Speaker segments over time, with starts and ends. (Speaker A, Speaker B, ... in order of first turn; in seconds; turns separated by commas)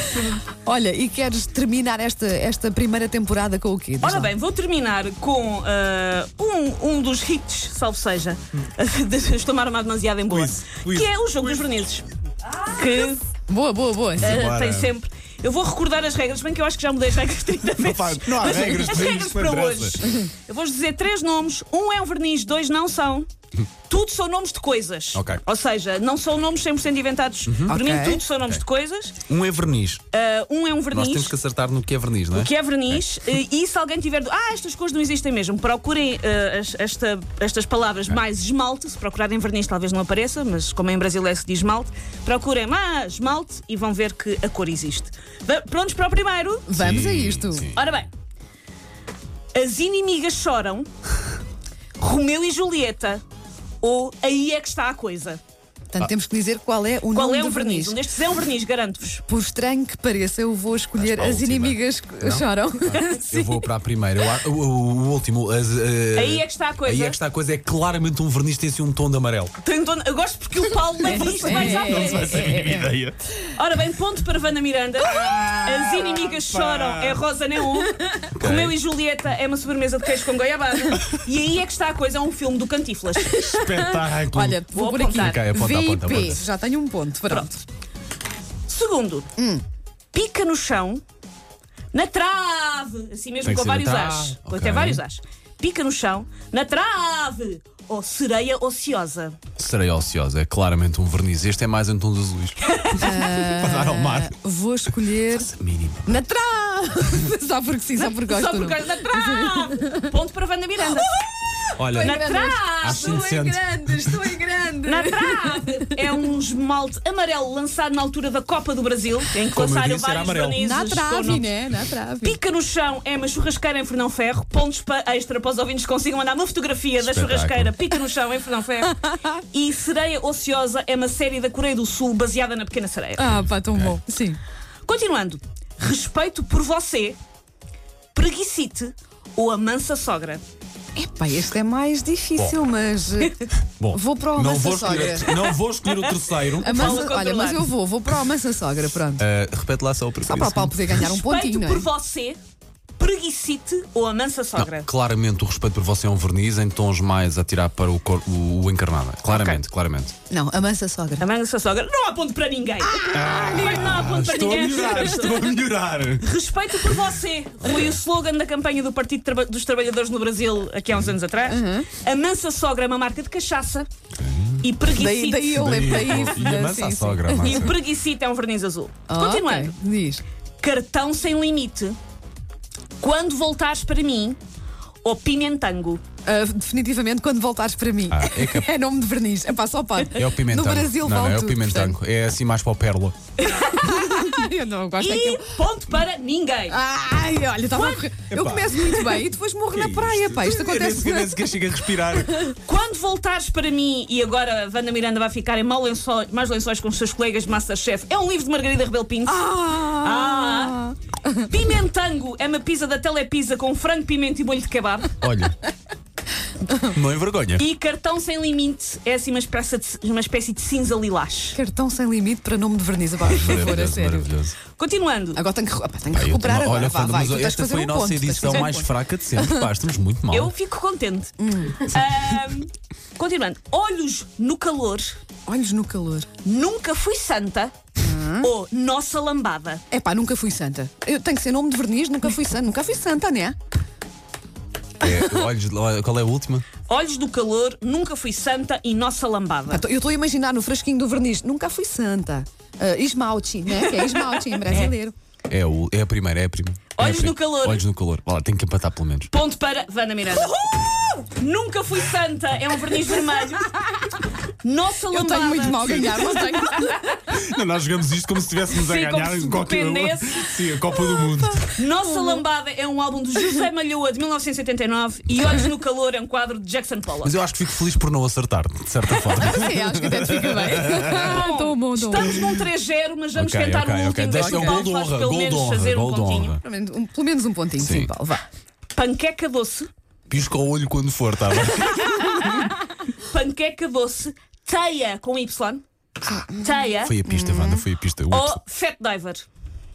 Speaker A: 0.1-4.3, Speaker B: 4.0-13.2, Speaker C: 10.3-11.5, Speaker A: 13.0-14.4, Speaker C: 14.2-14.9, Speaker B: 14.2-23.3, Speaker C: 17.8-20.0, Speaker B: 23.9-29.2, Speaker C: 25.1-25.4, Speaker C: 27.5-27.8, Speaker A: 27.7-28.2, Speaker C: 29.2-30.1, Speaker B: 30.1-31.3, Speaker C: 30.9-33.0, Speaker B: 32.3-46.7, Speaker A: 46.7-47.7, Speaker C: 46.8-47.8, Speaker B: 47.7-48.1, Speaker B: 49.5-50.9, Speaker B: 52.0-53.2, Speaker B: 53.8-55.4, Speaker A: 55.9-58.0, Speaker B: 57.1-59.2, Speaker A: 59.3-63.6, Speaker C: 60.9-69.5, Speaker B: 66.1-67.2, Speaker B: 69.6-72.5, Speaker A: 71.0-72.9, Speaker C: 71.3-73.2, Speaker B: 73.5-83.6, Speaker C: 75.1-77.2, Speaker C: 78.3-78.8, Speaker A: 83.2-87.6, Speaker C: 83.5-86.4, Speaker B: 84.7-85.4, Speaker B: 87.3-87.5, Speaker B: 88.7-89.3, Speaker A: 89.4-89.6, Speaker B: 90.1-91.0, Speaker B: 91.9-99.4, Speaker C: 93.4-95.0, Speaker C: 99.6-104.3, Speaker B: 102.6-103.1, Speaker A: 102.9-105.5, Speaker C: 105.3-106.2, Speaker A: 106.0-110.2, Speaker B: 108.0-111.1, Speaker A: 110.8-111.2, Speaker C: 111.8-112.2, Speaker A: 111.8-116.2, Speaker B: 112.0-113.5, Speaker C: 112.8-114.2, Speaker B: 114.8-121.5, Speaker C: 119.5-120.7, Speaker A: 120.5-122.4, Speaker B: 122.2-133.4, Speaker C: 127.0-127.7, Speaker A: 128.8-129.4, Speaker A: 133.2-134.4, Speaker C: 133.4-133.9, Speaker B: 134.8-137.2, Speaker B: 138.1-140.4, Speaker A: 140.9-145.3, Speaker C: 143.5-147.1, Speaker B: 145.3-147.6, Speaker A: 146.5-149.2, Speaker C: 149.2-151.1, Speaker A: 150.2-151.9, Speaker B: 151.0-152.4, Speaker B: 153.0-154.9, Speaker C: 154.5-160.1, Speaker B: 159.3-159.6, Speaker A: 160.3-161.2, Speaker B: 161.2-165.6, Speaker A: 162.8-163.9, Speaker C: 163.1-166.3, Speaker B: 166.2-173.9, Speaker C: 167.6-168.0, Speaker A: 171.4-171.9, Speaker C: 174.1-174.8, Speaker B: 174.6-175.9, Speaker A: 174.9-177.7, Speaker C: 175.5-177.8, Speaker B: 177.4-179.7, Speaker A: 179.1-180.2, Speaker B: 180.6-182.0, Speaker B: 183.0-184.4, Speaker B: 185.0-186.0, Speaker A: 186.2-192.0, Speaker C: 188.1-188.7, Speaker C: 190.1-193.2, Speaker B: 193.4-194.4, Speaker A: 193.6-195.5, Speaker B: 195.0-196.8, Speaker A: 196.7-202.5, Speaker B: 197.7-198.1, Speaker C: 198.3-202.4, Speaker B: 202.6-210.9, Speaker A: 209.2-211.5, Speaker B: 211.4-215.2, Speaker C: 215.2-215.6, Speaker C: 216.8-217.6, Speaker B: 217.6-221.6, Speaker A: 221.5-224.3, Speaker C: 223.2-224.6, Speaker B: 224.8-225.4, Speaker A: 225.3-229.7, Speaker C: 226.1-230.5, Speaker B: 230.3-235.2, Speaker A: 231.4-231.9, Speaker A: 235.5-236.3, Speaker B: 236.4-237.7, Speaker A: 238.0-238.5, Speaker B: 238.4-239.8, Speaker A: 239.9-243.6, Speaker C: 245.0-246.7, Speaker B: 246.9-249.8, Speaker A: 249.7-255.1, Speaker C: 255.5-259.3, Speaker B: 256.9-257.8, Speaker B: 259.3-260.5, Speaker A: 260.3-261.1, Speaker B: 261.4-263.7, Speaker A: 263.4-264.0, Speaker B: 264.6-267.1, Speaker A: 265.1-267.2, Speaker C: 267.2-271.7, Speaker B: 268.7-270.5, Speaker B: 271.8-277.3, Speaker A: 272.0-272.4, Speaker C: 275.3-275.7, Speaker C: 277.2-281.4, Speaker A: 279.3-282.4, Speaker B: 280.9-286.6, Speaker C: 282.2-282.6, Speaker C: 283.3-286.6, Speaker A: 284.3-284.9, Speaker A: 286.6-288.4, Speaker C: 287.8-288.1, Speaker B: 288.9-289.9, Speaker C: 290.3-292.7, Speaker B: 291.7-295.8, Speaker A: 296.2-297.9, Speaker B: 296.5-297.2, Speaker C: 297.0-298.6, Speaker B: 298.3-299.4